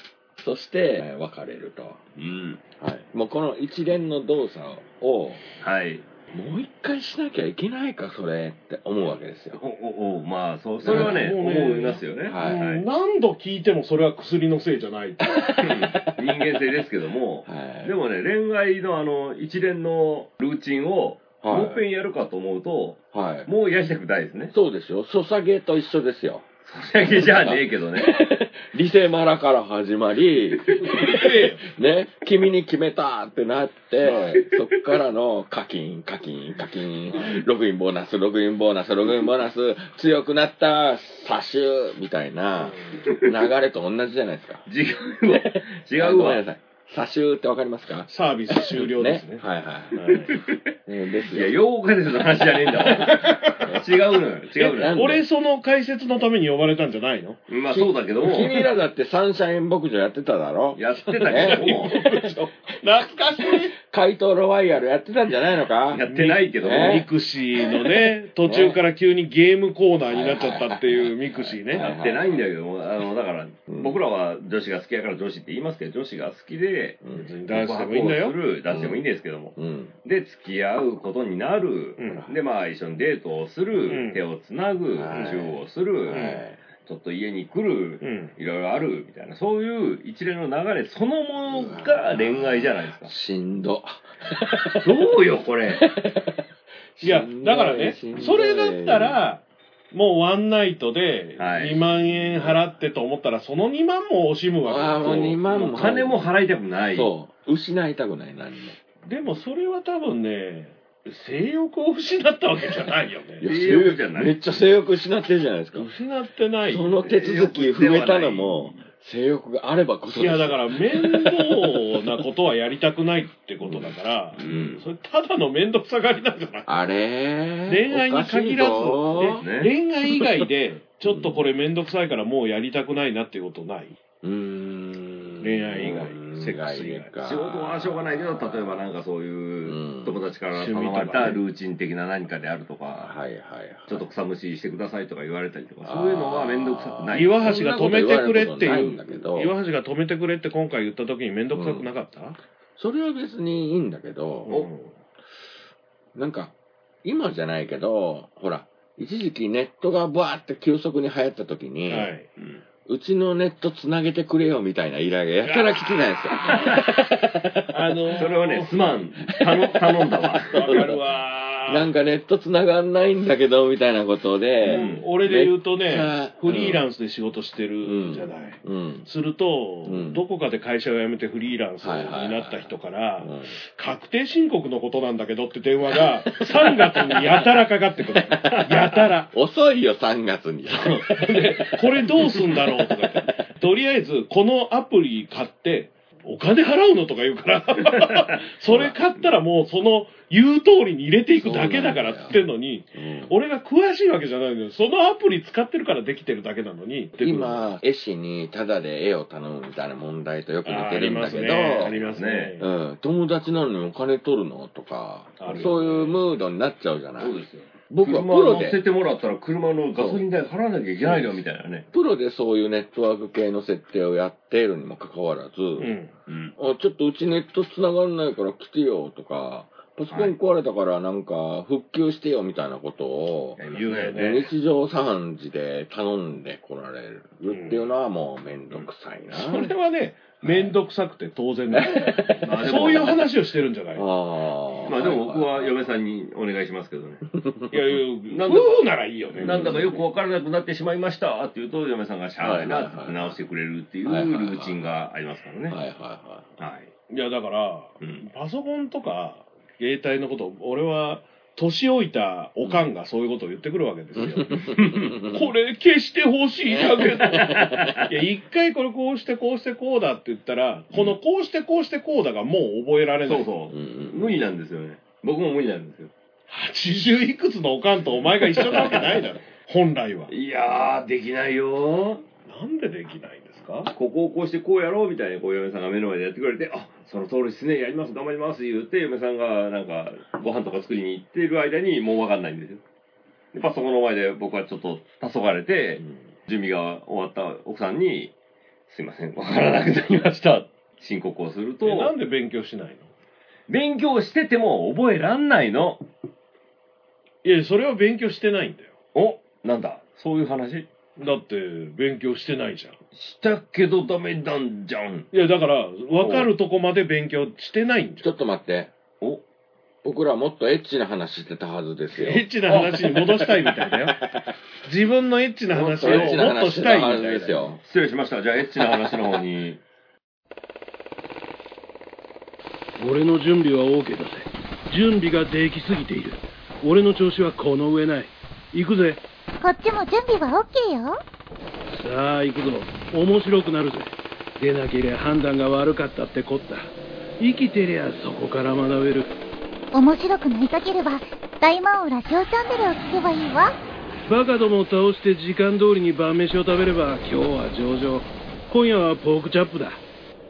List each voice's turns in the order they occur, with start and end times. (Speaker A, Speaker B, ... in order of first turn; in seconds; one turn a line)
Speaker A: 0.4-2.0
Speaker B: 2.2-2.6
Speaker A: 2.8-5.4
Speaker B: 5.6-6.0
Speaker A: 6.3-9.6
Speaker B: 9.6-12.8
Speaker A: 10.8-11.2
Speaker C: 10.8-15.4
Speaker A: 12.2-12.6
Speaker A: 15.3-16.1
Speaker B: 15.6-24.5
Speaker A: 17.4-17.9
Speaker A: 21.4-21.8
Speaker A: 23.1-23.5
Speaker A: 24.5-26.5
Speaker B: 26.6-28.1
Speaker A: 27.0-44.6
Speaker C: 30.8-31.6
Speaker C: 42.6-43.0
Speaker B: 44.7-46.4
Speaker A: 45.2-50.0
Speaker C: 48.1-50.3
Speaker B: 50.0-50.6
Speaker A: 50.9-51.6
Speaker B: 51.3-55.0
Speaker C: 52.8-53.7
Speaker A: 54.6-55.2
Speaker C: 54.6-57.4
Speaker B: 57.5-58.5
Speaker A: 57.7-62.1
Speaker B: 60.8-62.0
Speaker C: 61.2-63.8
Speaker A: 63.4-66.0
Speaker B: 65.9-67.1
Speaker C: 66.0-71.9
Speaker A: 66.6-67.1
Speaker A: 67.6-68.8
Speaker A: 70.1-72.5
Speaker B: 71.7-86.2
Speaker A: 73.7-74.0
Speaker A: 77.0-77.3
Speaker C: 77.1-78.4
Speaker A: 78.7-79.0
Speaker A: 79.5-79.9
Speaker C: 82.0-82.2
Speaker A: 82.1-82.3
Speaker C: 83.9-84.2
Speaker A: 84.9-86.6
Speaker C: 86.1-86.4
Speaker B: 86.8-93.1
Speaker C: 88.0-88.3
Speaker A: 91.5-94.9
Speaker B: 94.8-95.8
Speaker A: 95.7-96.5
Speaker A: 97.0-99.2
Speaker C: 97.0-105.4
Speaker B: 101.4-101.8
Speaker A: 104.6-106.3
Speaker B: 105.0-107.1
Speaker A: 106.9-108.8
Speaker C: 109.0-113.5
Speaker A: 113.4-115.9
Speaker B: 113.4-114.4
Speaker C: 115.7-117.0
Speaker A: 116.7-122.2
Speaker B: 117.0-118.8
Speaker C: 120.2-126.7
Speaker A: 123.6-123.9
Speaker B: 124.3-124.8
Speaker A: 124.5-124.8
Speaker A: 126.7-129.4
Speaker C: 127.7-134.0
Speaker B: 129.2-129.7
Speaker A: 131.0-131.4
Speaker A: 134.2-138.8
Speaker C: 135.4-137.1
Speaker B: 137.2-143.1
Speaker A: 139.6-140.2
Speaker C: 140.5-141.4
Speaker A: 143.0-144.1
Speaker B: 143.9-147.4
Speaker A: 145.8-149.5
Speaker C: 147.1-152.4
Speaker A: 151.5-151.9
Speaker A: 152.8-154.7
Speaker B: 154.4-154.9
Speaker A: 156.1-162.1
Speaker C: 161.9-162.2
Speaker A: 162.8-168.2
Speaker C: 165.4-165.7
Speaker C: 167.7-168.7
Speaker B: 168.2-170.9
Speaker A: 169.3-171.0
Speaker C: 170.5-171.9
Speaker A: 171.7-176.8
Speaker C: 174.6-189.3
Speaker B: 174.6-175.1
Speaker A: 177.8-179.1
Speaker A: 179.8-180.2
Speaker A: 181.8-183.6
Speaker A: 185.9-187.5
Speaker A: 188.2-188.6
Speaker B: 188.4-189.0
Speaker A: 189.3-193.2
Speaker C: 190.7-207.7
Speaker B: 197.8-198.3
Speaker A: 198.7-199.0
Speaker A: 201.3-202.4
Speaker A: 202.9-203.3
Speaker A: 207.2-212.0
Speaker C: 210.6-212.7
Speaker B: 212.0-212.6
Speaker A: 212.6-218.8
Speaker C: 215.4-216.2
Speaker B: 217.2-221.9
Speaker A: 219.9-220.2
Speaker A: 221.9-225.9
Speaker C: 225.8-226.1
Speaker B: 226.3-226.5
Speaker A: 226.6-239.7
Speaker B: 230.1-230.3
Speaker B: 233.6-234.2
Speaker C: 233.7-234.5
Speaker C: 237.5-237.8
Speaker C: 239.3-244.1
Speaker A: 241.7-242.5
Speaker B: 242.4-243.3
Speaker A: 243.9-245.8
Speaker B: 244.8-247.2
Speaker A: 247.3-247.9
Speaker C: 247.7-250.0
Speaker B: 248.3-248.8
Speaker A: 249.3-249.9
Speaker B: 249.4-255.8
Speaker A: 252.4-253.4
Speaker A: 254.0-254.8
Speaker A: 255.7-256.5
Speaker B: 256.6-256.9
Speaker C: 257.1-273.5
Speaker A: 264.1-265.5
Speaker B: 264.8-265.1
Speaker A: 266.9-267.9
Speaker B: 267.0-268.2
Speaker B: 273.2-276.1
Speaker A: 273.7-274.4
Speaker C: 276.5-280.3
Speaker B: 278.6-279.2
Speaker B: 280.3-282.2
Speaker C: 282.4-283.9
Speaker B: 283.9-292.8
Speaker B: 293.5-298.3
Speaker B: 298.9-302.1
Speaker C: 301.8-303.1
Speaker B: 303.7-306.0
Speaker C: 307.4-308.9
Speaker B: 309.1-310.9
Speaker C: 311.2-313.0
Speaker B: 313.1-315.3
Speaker C: 315.3-318.2
Speaker B: 316.2-316.5
Speaker A: 318.2-318.9
Speaker A: 320.0-324.4
Speaker C: 322.1-324.2
Speaker C: 324.8-327.8
Speaker A: 325.7-327.8
Speaker B: 326.0-326.5
Speaker B: 327.8-329.8
Speaker D: 333.0-339.2
Speaker E: 339.6-341.2
Speaker D: 341.9-349.3
Speaker E: 349.9-353.7
Speaker D: 354.2-360.0